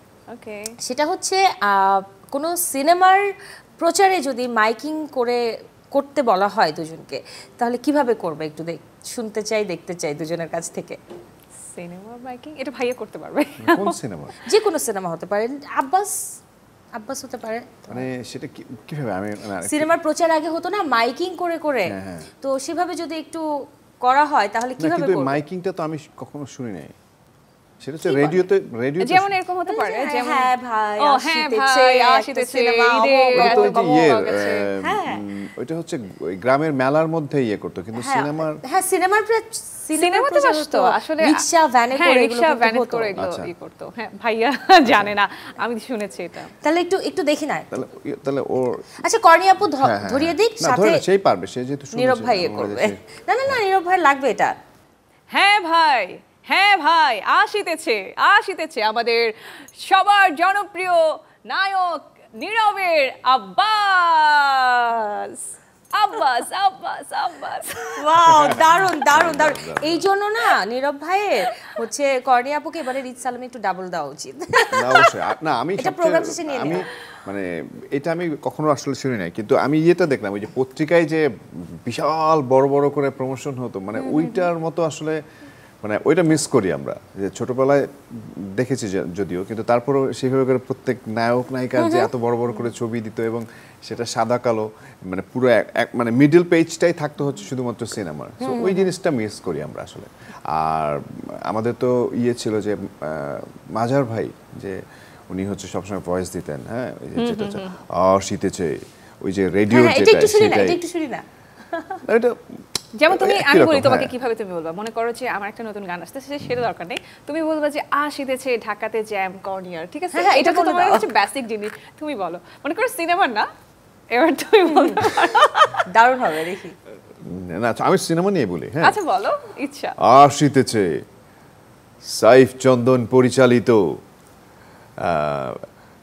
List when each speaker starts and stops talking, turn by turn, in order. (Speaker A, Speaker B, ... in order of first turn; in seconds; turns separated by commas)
Speaker A: 0.3-0.7, Speaker B: 0.8-3.2, Speaker B: 3.8-5.4, Speaker B: 6.0-11.0, Speaker A: 11.7-14.0, Speaker C: 13.6-14.3, Speaker B: 14.4-16.1, Speaker B: 16.9-18.1, Speaker C: 17.9-20.0, Speaker B: 19.6-23.4, Speaker C: 21.9-22.3, Speaker B: 24.0-25.4, Speaker C: 24.8-26.9, Speaker C: 27.8-29.3, Speaker B: 28.0-28.4, Speaker A: 29.0-34.7, Speaker B: 29.7-34.0, Speaker C: 33.3-38.6, Speaker B: 34.8-35.2, Speaker B: 37.9-43.2, Speaker A: 40.0-41.4, Speaker A: 42.0-46.5, Speaker C: 43.2-43.5, Speaker C: 44.8-45.1, Speaker B: 46.6-47.7, Speaker C: 47.7-48.9, Speaker B: 49.0-51.0, Speaker C: 49.8-53.0, Speaker B: 51.9-54.5, Speaker A: 55.3-68.0, Speaker B: 68.0-75.1, Speaker C: 68.2-70.1, Speaker C: 74.7-81.3, Speaker B: 75.8-76.9, Speaker C: 81.8-85.2, Speaker B: 83.9-84.5, Speaker C: 85.8-104.8, Speaker B: 91.8-92.1, Speaker B: 98.4-98.9, Speaker C: 105.3-110.8, Speaker A: 107.2-107.7, Speaker B: 109.7-112.0, Speaker C: 112.0-114.1, Speaker A: 113.0-123.5, Speaker B: 120.1-121.1, Speaker A: 124.1-125.8, Speaker B: 124.7-125.2, Speaker B: 126.0-126.8, Speaker C: 127.2-129.0, Speaker A: 128.8-129.9, Speaker C: 130.0-131.0, Speaker C: 132.0-133.9, Speaker C: 135.0-135.6